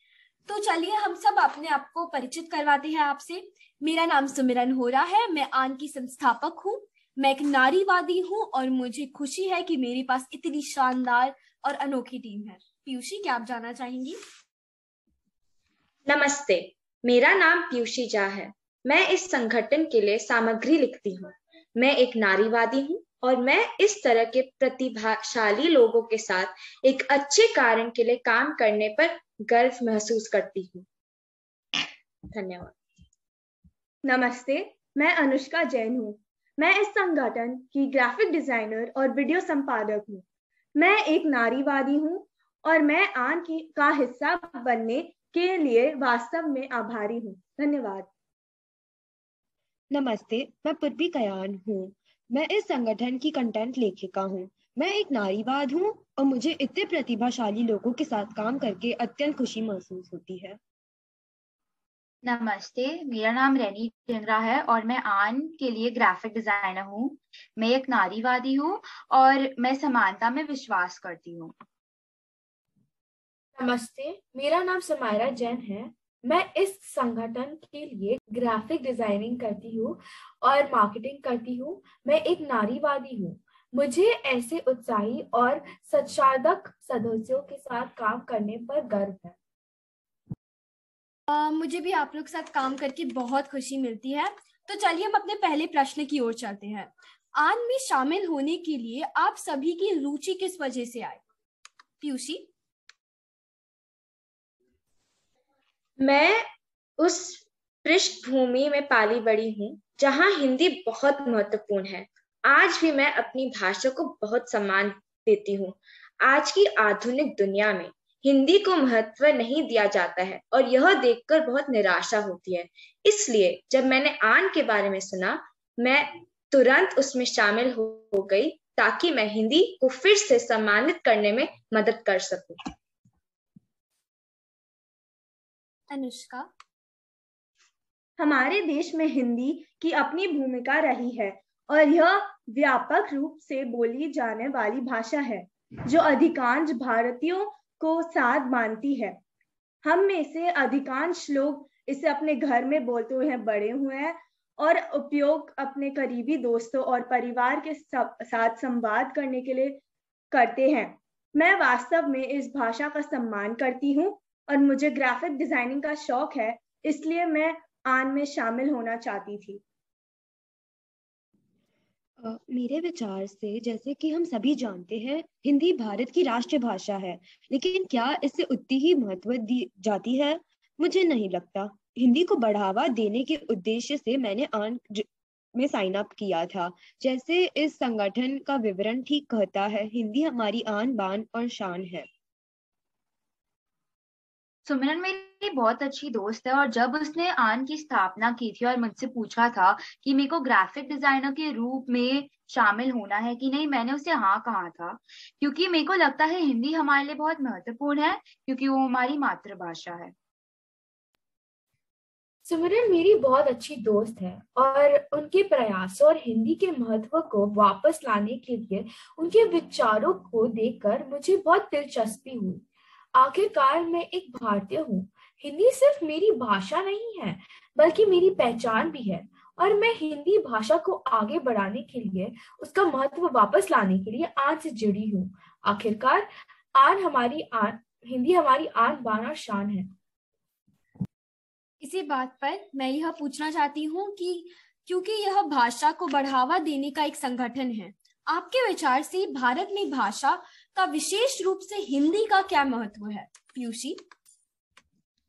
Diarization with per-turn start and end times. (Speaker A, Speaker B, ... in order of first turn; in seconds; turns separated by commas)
Speaker A: 0.5-14.2, Speaker B: 16.1-30.9, Speaker B: 32.3-32.7, Speaker C: 34.0-40.2, Speaker C: 40.7-48.1, Speaker D: 49.9-60.6, Speaker E: 62.2-71.5, Speaker F: 73.6-89.3, Speaker A: 91.3-101.2, Speaker A: 102.0-102.5, Speaker B: 106.0-106.4, Speaker B: 107.0-132.7, Speaker A: 135.9-136.5, Speaker C: 138.2-149.2, Speaker C: 149.8-159.8, Speaker C: 160.3-169.6, Speaker D: 172.2-192.1, Speaker E: 194.7-210.1, Speaker F: 212.4-222.6, Speaker F: 223.1-239.9, Speaker A: 241.8-254.0